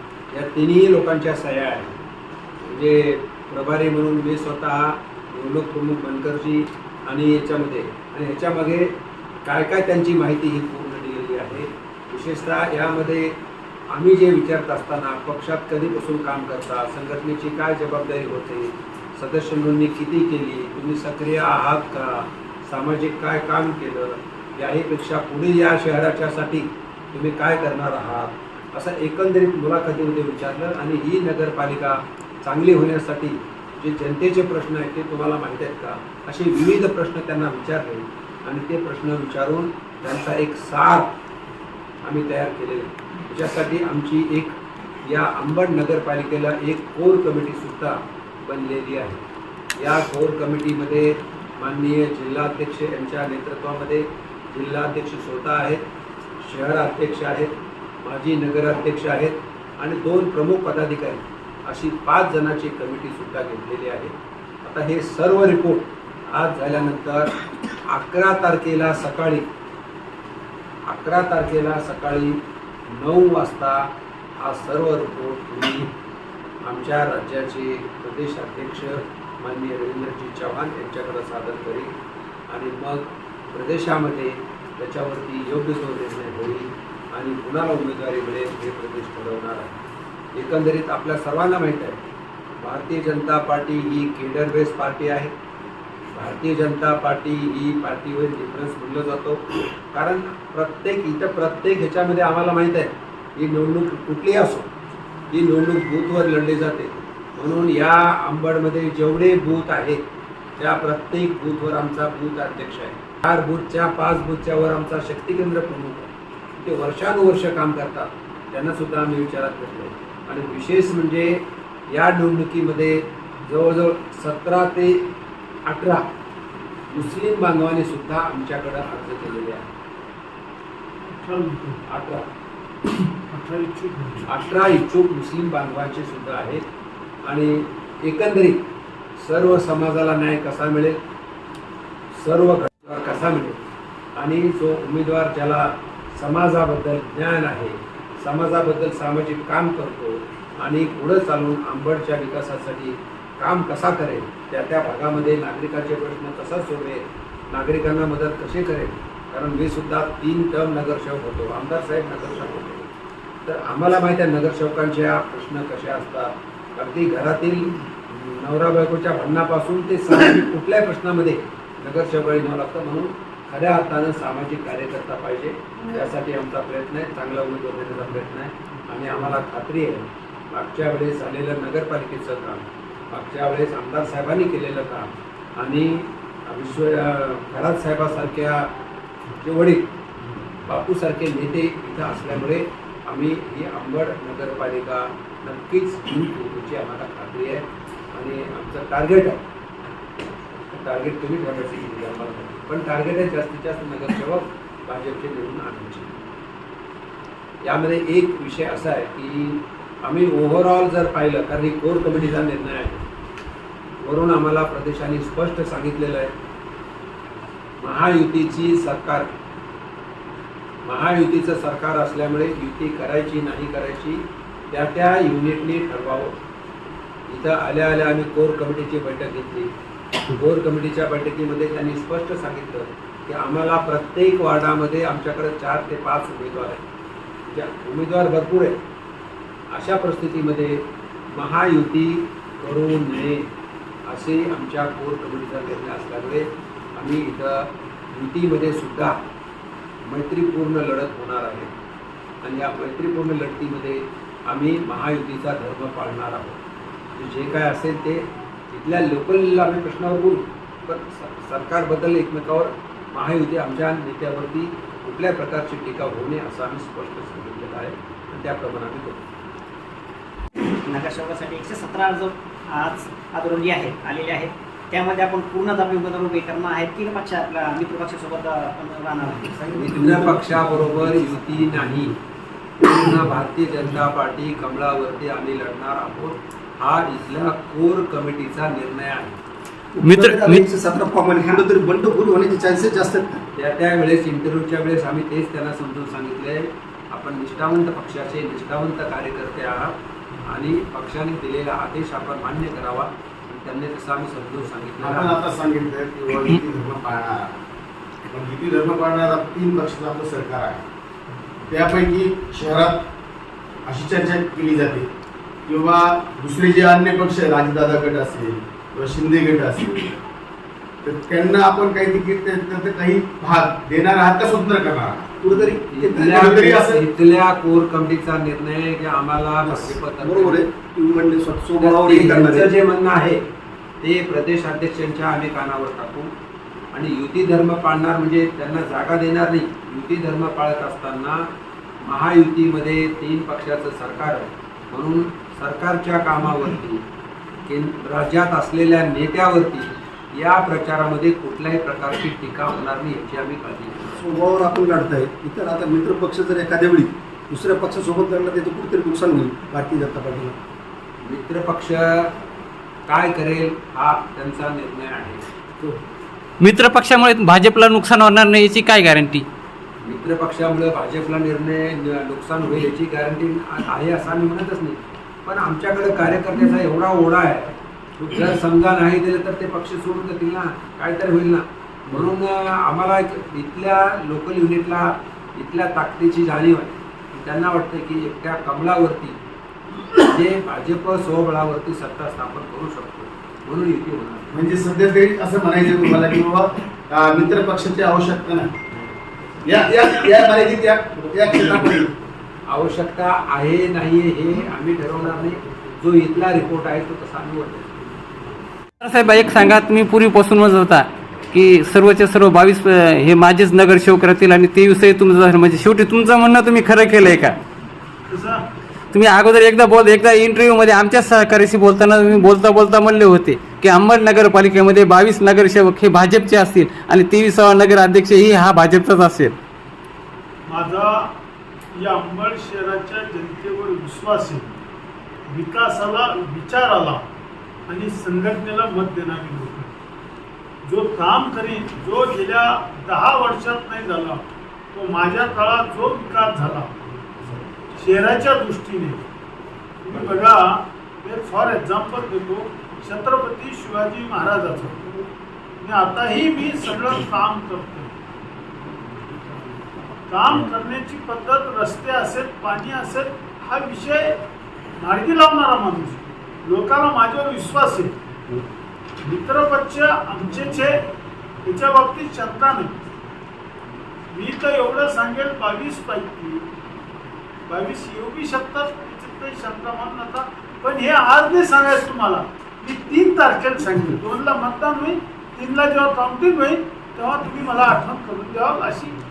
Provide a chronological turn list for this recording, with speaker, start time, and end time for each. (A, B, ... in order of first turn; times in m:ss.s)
0:00.3-0:01.9 A
0:02.6-0:08.9 A
0:09.4-0:13.4 A
0:13.9-0:41.1 A
0:42.0-0:49.2 A
0:49.8-0:55.8 A
0:56.4-0:57.5 A
0:58.0-1:07.3 A
1:07.9-1:09.4 A
1:10.9-1:15.9 A
1:16.6-1:21.9 A
1:22.5-1:29.8 A
1:30.4-1:32.0 A
1:32.6-1:35.3 A
1:36.1-1:44.7 A
1:45.3-1:50.0 A
1:50.6-2:05.1 A
2:05.7-2:06.0 A
2:06.9-2:09.7 A
2:11.1-2:11.8 B
2:11.8-2:12.2 A
2:13.3-2:14.2 B
2:14.3-2:16.6 A
2:17.2-2:18.6 A
2:19.2-2:21.0 A
2:22.2-2:23.6 A
2:24.2-2:42.9 A
2:43.4-3:08.7 A
3:09.4-3:09.9 A
3:10.7-3:19.4 A
3:20.6-3:26.1 A
3:27.6-3:33.0 A
3:34.0-3:36.3 A
3:37.8-3:39.3 A
3:40.8-3:46.3 A
3:47.3-3:49.7 A
3:50.3-3:56.8 A
3:57.5-3:58.8 A
3:59.7-4:03.5 A
4:04.1-4:09.2 A
4:10.0-4:11.7 A
4:12.4-4:16.6 A
4:17.2-4:29.3 A
4:30.8-4:39.9 C
4:39.7-4:42.2 A
4:42.8-4:49.4 A
4:49.9-4:53.4 D
4:50.0-4:50.6 E
4:53.5-4:59.9 A
5:00.4-5:05.4 A
5:05.0-5:07.5 F
5:08.3-5:10.8 F
5:11.7-5:13.0 F
5:13.9-5:15.1 F
5:15.6-5:20.2 F
5:21.0-5:25.3 F
5:25.4-5:26.8 D
5:25.5-5:30.6 A
5:26.4-5:27.0 F
5:29.6-5:32.7 D
5:31.8-5:33.4 A
5:34.0-5:36.3 A
5:36.9-5:41.5 A
5:42.0-5:47.0 A
5:47.6-5:54.1 A
5:54.1-6:00.6 D
6:01.2-6:02.3 A
6:03.1-6:06.0 A
6:06.6-6:09.4 E
6:10.0-6:29.4 A
6:30.2-6:34.5 A
6:34.5-6:38.7 F
6:39.6-6:42.1 F
6:42.7-6:47.9 A
6:49.0-6:57.6 E
6:58.3-6:58.6 B
6:59.1-7:09.6 E
7:10.7-7:11.2 B
7:12.0-7:14.6 B
7:15.5-7:17.2 B
7:17.9-7:19.9 B
7:20.9-7:27.0 B
7:28.0-7:29.2 B
7:30.0-7:35.0 B
7:35.8-7:38.1 B
7:40.3-7:44.3 B
7:45.0-7:48.1 B
7:49.2-7:51.0 B
7:51.7-7:53.0 B
7:54.3-7:56.6 B
7:57.7-8:09.2 B